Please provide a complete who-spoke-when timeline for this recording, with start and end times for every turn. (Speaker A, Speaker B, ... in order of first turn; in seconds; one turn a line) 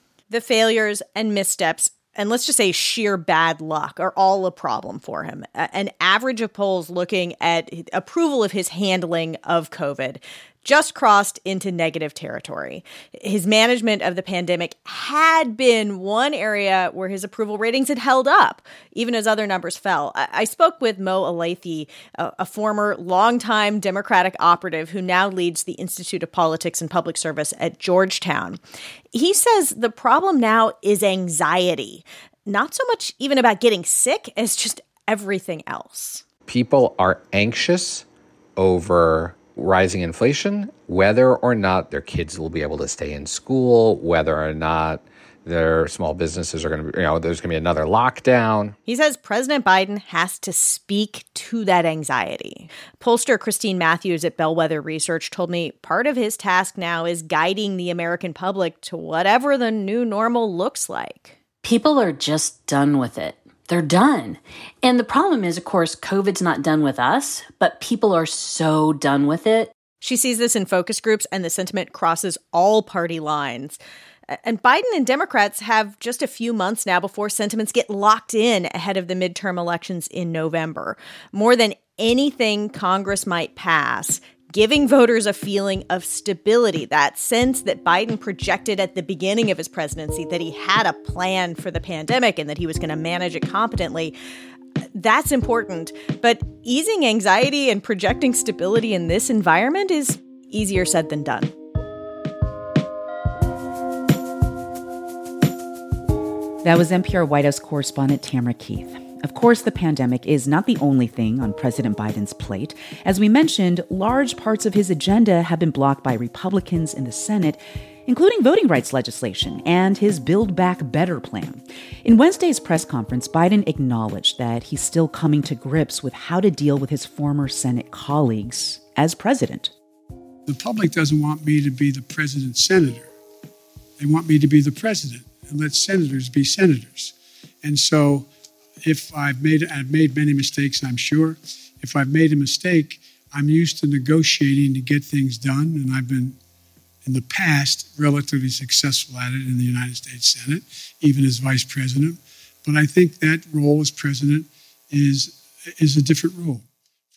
Speaker A: 0.3-28.6
Speaker A: 29.1-36.2
Speaker B: 36.5-38.0
Speaker B: 38.6-48.8
Speaker A: 48.9-61.4
Speaker C: 61.6-69.7
Speaker A: 70.0-73.8
Speaker A: 74.3-94.1
Speaker A: 94.9-101.5
Speaker D: 106.6-129.7
Speaker E: 130.4-133.1
Speaker E: 134.0-138.3
Speaker E: 138.8-146.4
Speaker E: 147.0-156.6